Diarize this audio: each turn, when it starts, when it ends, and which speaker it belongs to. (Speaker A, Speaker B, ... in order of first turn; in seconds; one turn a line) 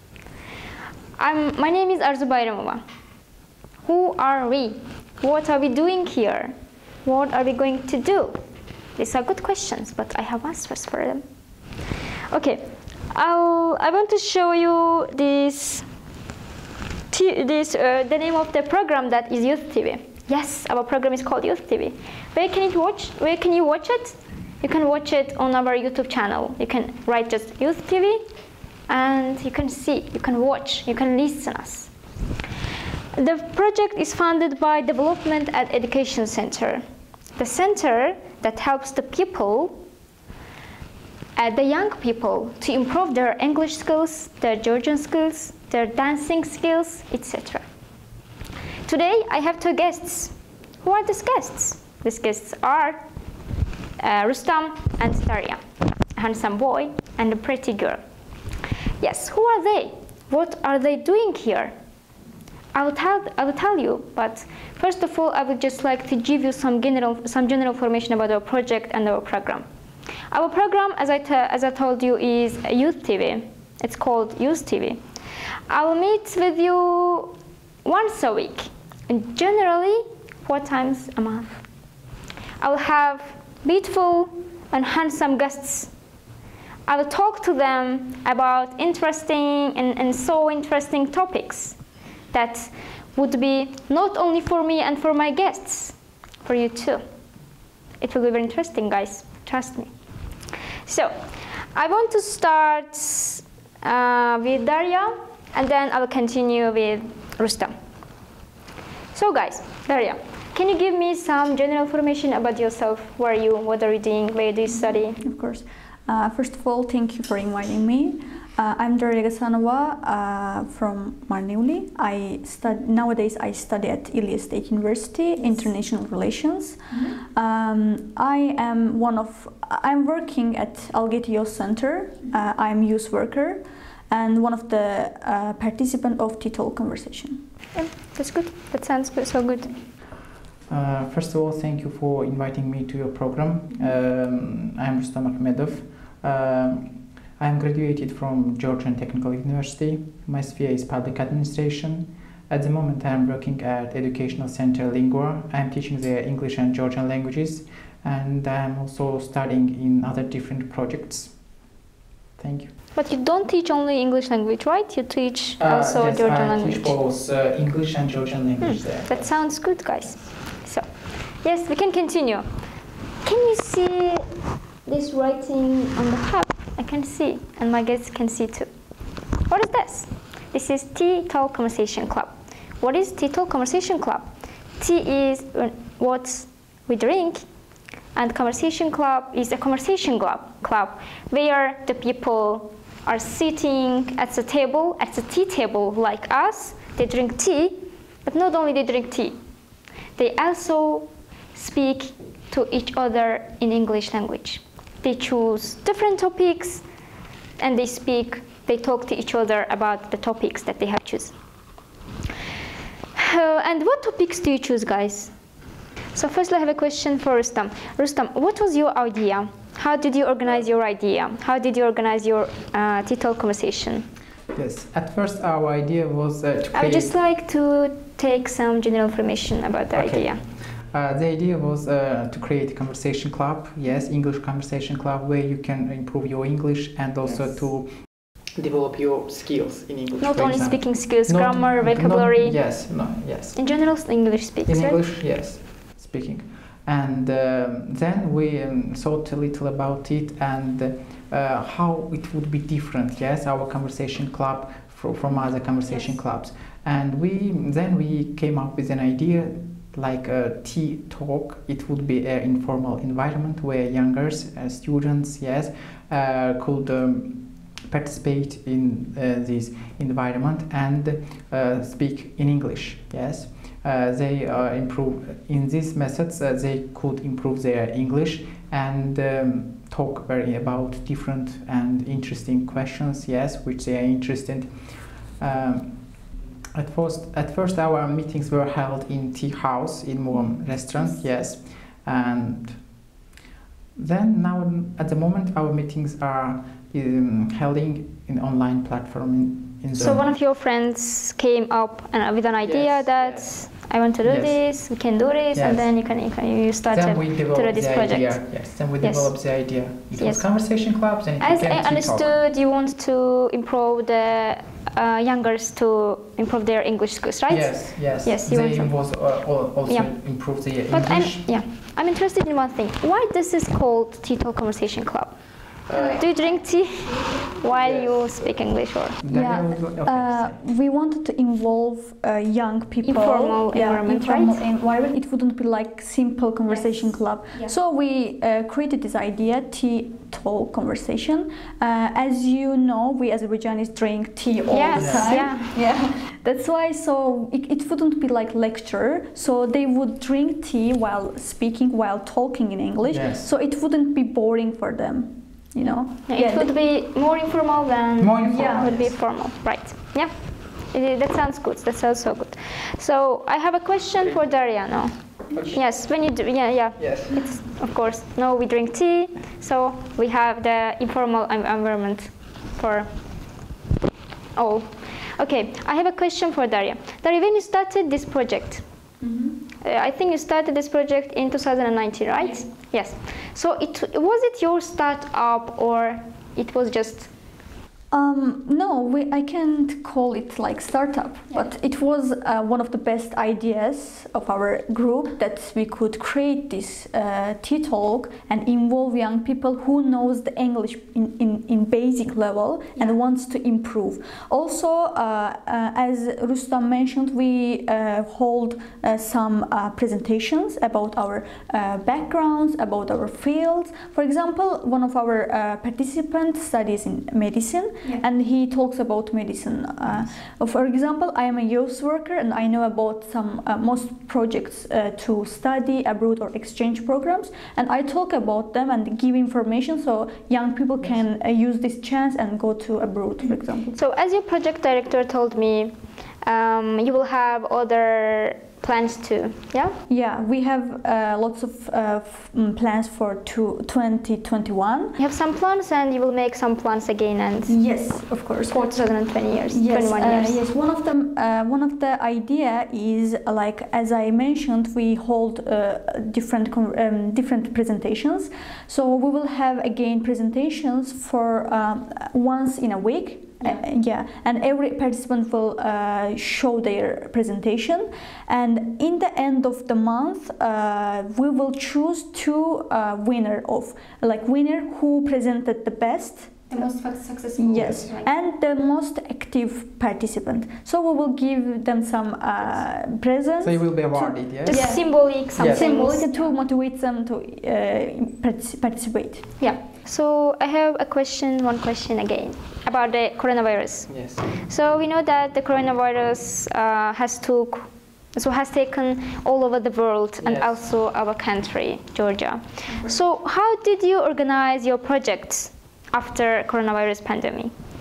Speaker A: 1.2-2.8
Speaker A: 3.8-8.4
Speaker A: 9.0-11.2
Speaker A: 12.3-15.8
Speaker A: 17.1-28.2
Speaker A: 28.9-31.9
Speaker A: 33.1-36.8
Speaker A: 37.4-39.8
Speaker A: 41.3-47.6
Speaker A: 48.9-53.0
Speaker A: 54.0-55.6
Speaker A: 56.1-58.0
Speaker A: 59.0-61.7
Speaker A: 62.7-69.6
Speaker A: 70.3-75.0
Speaker A: 75.7-81.6
Speaker A: 82.6-85.9
Speaker A: 86.9-91.8
Speaker A: 92.3-97.0
Speaker A: 98.0-99.9
Speaker A: 100.8-101.1
Speaker A: 101.7-107.7
Speaker A: 109.1-115.2
Speaker B: 115.1-137.4
Speaker A: 137.7-139.8
Speaker C: 140.7-161.4
Speaker C: 162.4-162.7
Speaker A: 162.9-167.0
Speaker C: 165.6-169.4
Speaker A: 168.6-172.4
Speaker A: 173.2-174.2
Speaker A: 174.8-178.7
Speaker A: 179.5-187.4
Speaker A: 188.1-199.4
Speaker A: 200.2-206.8
Speaker A: 207.6-211.3
Speaker A: 213.2-215.3
Speaker A: 216.1-224.1
Speaker C: 224.5-227.2
Speaker A: 226.7-230.4
Speaker C: 229.9-238.0
Speaker C: 238.5-243.9
Speaker A: 240.2-242.8
Speaker A: 243.5-245.0
Speaker C: 244.7-292.9
Speaker C: 293.9-300.3
Speaker A: 299.9-310.4
Speaker C: 302.6-303.6
Speaker C: 304.2-304.8
Speaker C: 305.5-306.1
Speaker C: 306.9-312.3
Speaker A: 311.4-319.1
Speaker C: 317.5-321.4
Speaker A: 319.8-320.2
Speaker A: 320.9-329.2
Speaker C: 325.9-326.2
Speaker C: 327.6-330.6
Speaker B: 329.3-356.8
Speaker A: 333.0-334.6
Speaker A: 344.7-345.7
Speaker C: 344.9-345.3
Speaker C: 353.0-353.5
Speaker A: 356.3-360.3
Speaker C: 358.2-359.1
Speaker B: 358.4-358.8
Speaker A: 360.9-373.1
Speaker C: 364.2-364.7
Speaker C: 365.5-366.1
Speaker C: 366.9-367.4
Speaker A: 374.5-378.8
Speaker B: 379.2-379.6
Speaker A: 379.8-387.3
Speaker B: 388.1-433.9
Speaker A: 433.9-440.0
Speaker B: 440.1-445.2
Speaker A: 445.2-450.6
Speaker B: 447.7-449.1
Speaker B: 449.7-476.8
Speaker A: 476.7-478.3
Speaker B: 477.6-489.5
Speaker C: 483.6-485.9
Speaker A: 484.6-486.5
Speaker A: 489.6-507.8
Speaker C: 494.1-494.5
Speaker C: 500.4-500.8